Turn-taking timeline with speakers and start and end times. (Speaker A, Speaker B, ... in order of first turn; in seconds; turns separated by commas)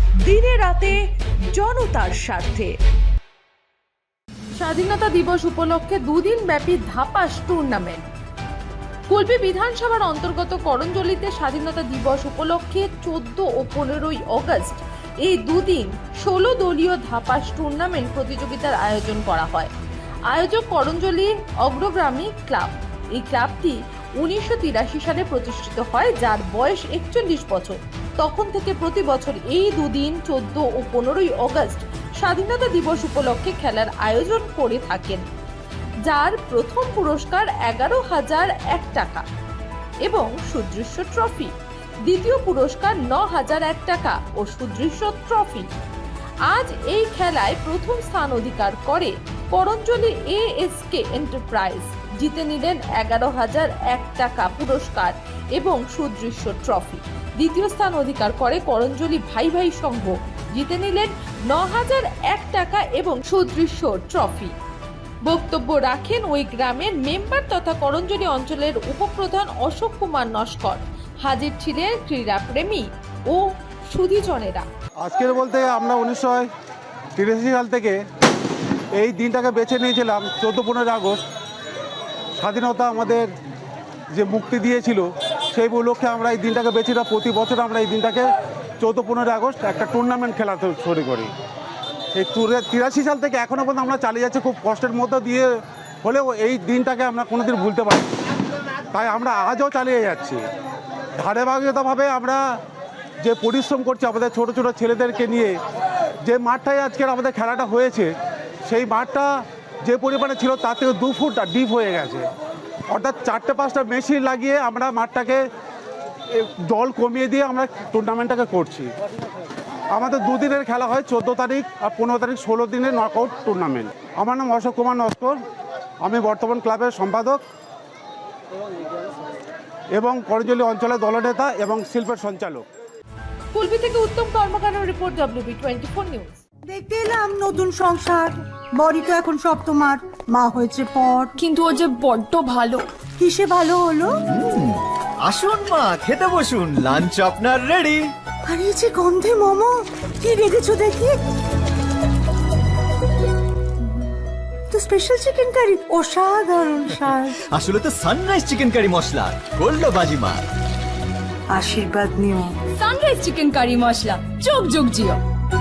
Speaker A: 0.2-0.9, Speaker A: 1.5-2.7, Speaker A: 4.5-8.0, Speaker A: 9.1-19.7, Speaker A: 20.3-35.2, Speaker A: 36.0-39.2, Speaker A: 40.0-41.5, Speaker A: 42.0-45.7, Speaker A: 46.5-64.5, Speaker A: 65.2-74.7, Speaker B: 75.0-76.5, Speaker B: 77.2-78.0, Speaker B: 78.9-81.2, Speaker B: 82.4-83.3, Speaker B: 84.1-91.3, Speaker B: 92.1-95.5, Speaker B: 96.0-98.2, Speaker B: 98.9-100.4, Speaker B: 101.2-102.4, Speaker B: 103.2-105.6, Speaker B: 106.2-108.1, Speaker B: 108.6-109.3, Speaker B: 109.8-112.2, Speaker B: 112.9-115.4, Speaker B: 116.3-118.9, Speaker B: 119.9-125.4, Speaker B: 126.0-127.4, Speaker B: 129.9-132.6, Speaker A: 133.5-136.4, Speaker C: 136.7-141.3, Speaker D: 141.4-142.9, Speaker C: 143.2-144.1, Speaker E: 144.3-148.1, Speaker C: 148.4-151.2, Speaker C: 154.7-157.4, Speaker E: 157.5-160.4, Speaker C: 161.5-162.6, Speaker D: 162.8-165.2